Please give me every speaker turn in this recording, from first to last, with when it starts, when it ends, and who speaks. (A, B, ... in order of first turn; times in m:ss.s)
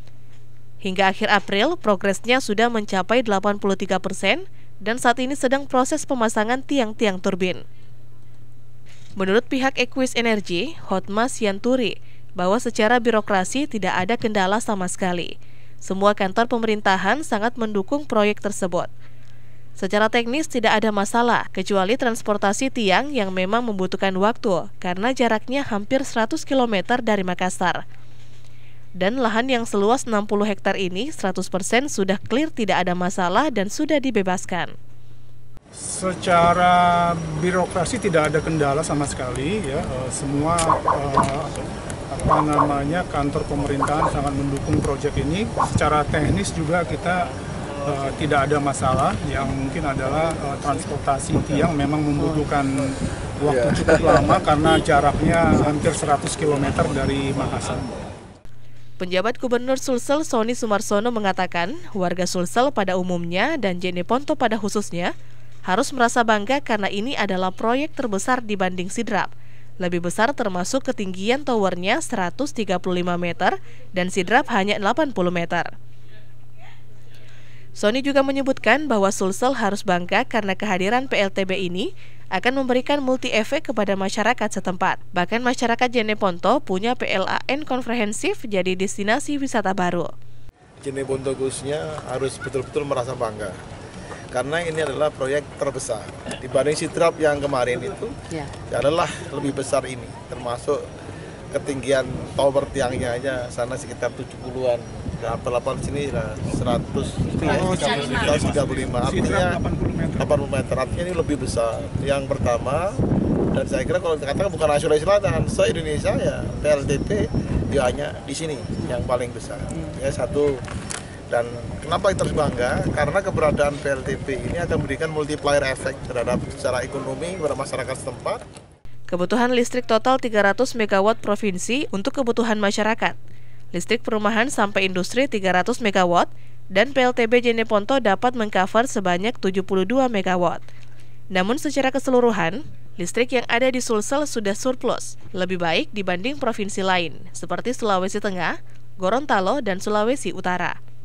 0:00.8-0:07.6 A
0:09.2-0:15.3 A
0:15.8-0:18.9 A
0:19.8-0:27.8 A
0:29.0-0:34.7 A
0:35.8-0:41.6 B
0:42.1-0:47.3 B
0:47.8-0:57.9 B
0:59.0-1:05.1 A
1:05.7-1:15.7 A
1:17.8-1:30.1 A
1:30.8-1:33.6 C
1:34.3-1:40.8 C
1:41.5-1:49.6 C
1:47.4-1:50.3 B
1:50.2-1:53.0 C
1:53.5-2:00.6 C
2:01.3-2:08.4 C
2:09.1-2:13.2 A
2:13.7-2:20.6 A
2:21.3-2:30.8 A